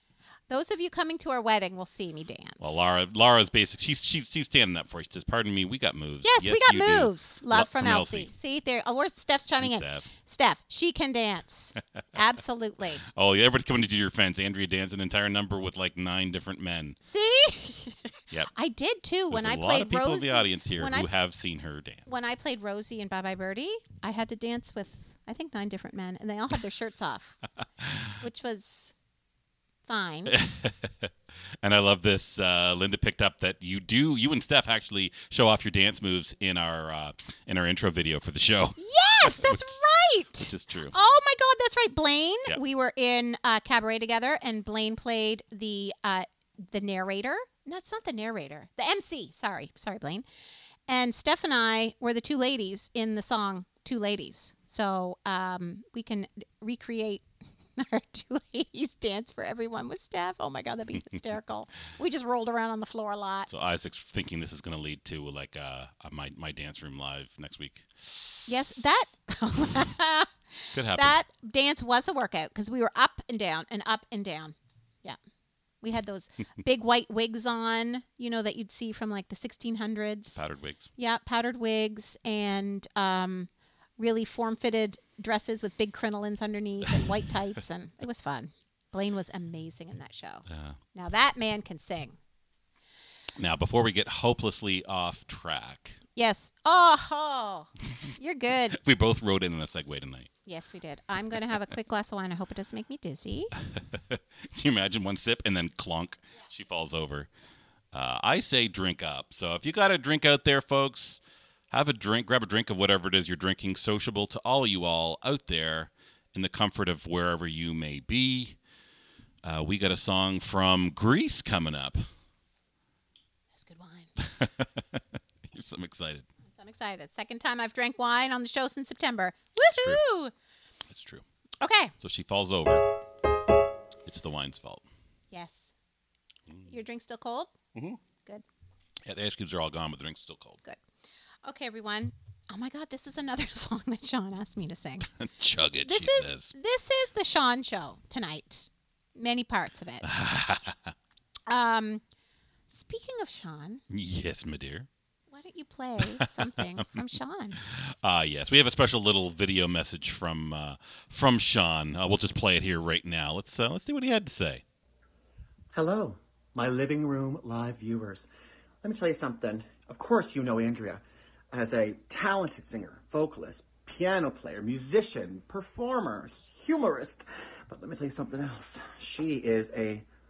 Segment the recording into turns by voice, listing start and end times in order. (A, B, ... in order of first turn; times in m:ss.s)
0:00.5-0:02.9 A
0:02.6-0:08.3 B
0:06.2-0:13.0 A
0:09.6-0:10.1 B
0:13.0-0:17.0 B
0:17.0-0:21.1 A
0:19.3-0:22.2 B
0:22.1-0:27.3 A
0:27.8-0:28.1 B
0:28.2-0:28.9 A
0:29.9-0:30.3 A
0:30.3-0:39.8 B
0:38.8-0:50.2 A
0:40.4-0:40.9 B
0:50.9-1:03.5 A
1:03.5-1:08.5 B
1:08.5-1:15.2 A
1:10.7-1:11.2 B
1:15.8-1:20.4 A
1:20.3-1:20.9 B
1:21.0-1:32.2 A
1:30.5-1:30.8 B
1:33.4-1:36.0 B
1:36.2-1:38.8 A
1:38.7-1:40.3 B
1:40.4-1:43.5 A
1:43.7-1:47.3 B
1:47.9-1:58.6 B
1:59.4-2:02.0 B
2:03.5-2:04.2 A
2:04.2-2:06.2 B
2:06.5-2:10.3 A
2:09.6-2:10.0 B
2:10.9-2:11.2 B
2:11.6-2:11.9 A
2:12.0-2:12.8 B
2:14.0-2:14.8 B
2:15.3-2:15.7 A
2:16.7-2:17.5 A
2:17.7-2:18.0 B
2:19.0-2:20.6 B
2:21.4-2:25.1 A
2:25.1-2:26.5 B
2:25.8-2:30.0 A
2:30.0-2:30.9 B
2:31.5-2:32.0 A
2:32.7-2:33.8 A
2:33.9-2:34.9 B
2:35.3-2:37.6 A
2:36.1-2:36.8 B
2:37.6-2:44.6 B
2:45.7-2:48.3 C
2:48.8-3:00.0 C